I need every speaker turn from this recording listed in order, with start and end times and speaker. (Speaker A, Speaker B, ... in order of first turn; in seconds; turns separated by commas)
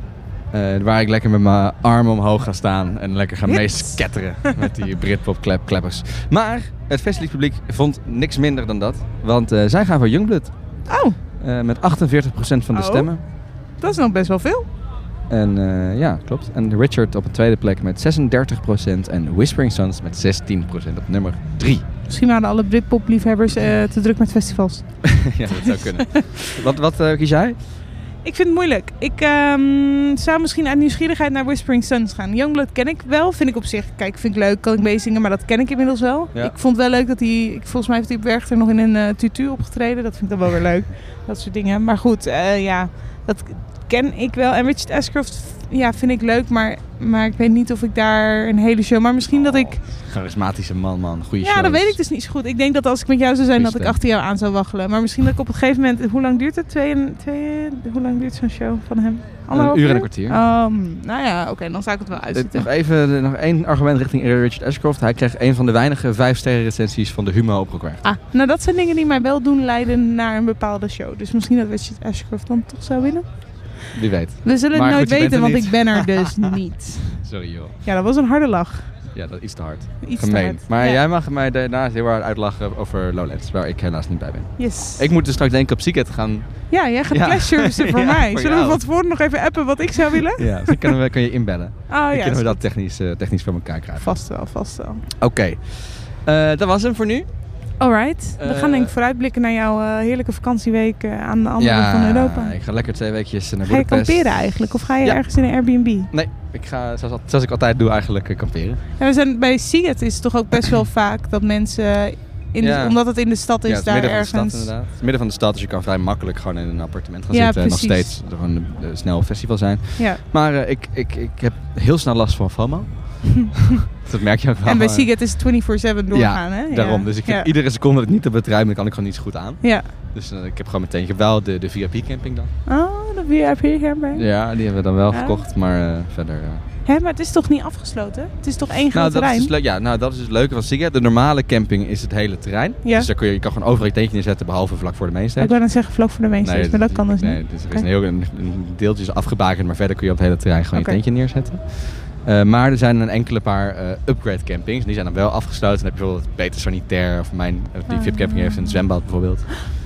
Speaker A: 0.5-10.5, Speaker B: 3.5-4.5, Speaker B: 10.9-11.2, Speaker A: 11.3-13.2, Speaker B: 12.7-14.7, Speaker A: 15.3-21.8, Speaker B: 22.1-26.1, Speaker A: 25.1-27.6, Speaker B: 28.2-49.8, Speaker A: 50.0-52.0, Speaker B: 51.4-62.7, Speaker A: 53.6-54.0, Speaker A: 59.5-60.4, Speaker A: 62.3-68.0, Speaker B: 68.0-73.8, Speaker A: 73.9-76.4, Speaker B: 74.4-77.2, Speaker A: 77.2-77.8, Speaker B: 77.8-78.9, Speaker A: 79.1-88.8, Speaker B: 80.0-81.0, Speaker B: 84.6-85.0, Speaker B: 86.7-90.9, Speaker A: 90.3-94.2, Speaker B: 91.9-92.6, Speaker B: 94.0-95.0, Speaker A: 95.2-97.3, Speaker B: 97.8-102.5, Speaker A: 98.4-98.9, Speaker A: 101.6-108.8, Speaker B: 103.7-106.1, Speaker B: 109.0-114.7, Speaker A: 112.6-125.3, Speaker B: 117.3-118.1, Speaker B: 124.7-127.5, Speaker A: 126.1-132.5, Speaker B: 129.6-129.9, Speaker B: 132.7-134.2, Speaker A: 134.1-136.6, Speaker B: 135.1-135.4, Speaker B: 136.8-139.5, Speaker A: 138.9-159.7, Speaker B: 142.8-143.1, Speaker B: 145.4-147.8, Speaker B: 150.7-151.0, Speaker B: 157.9-158.8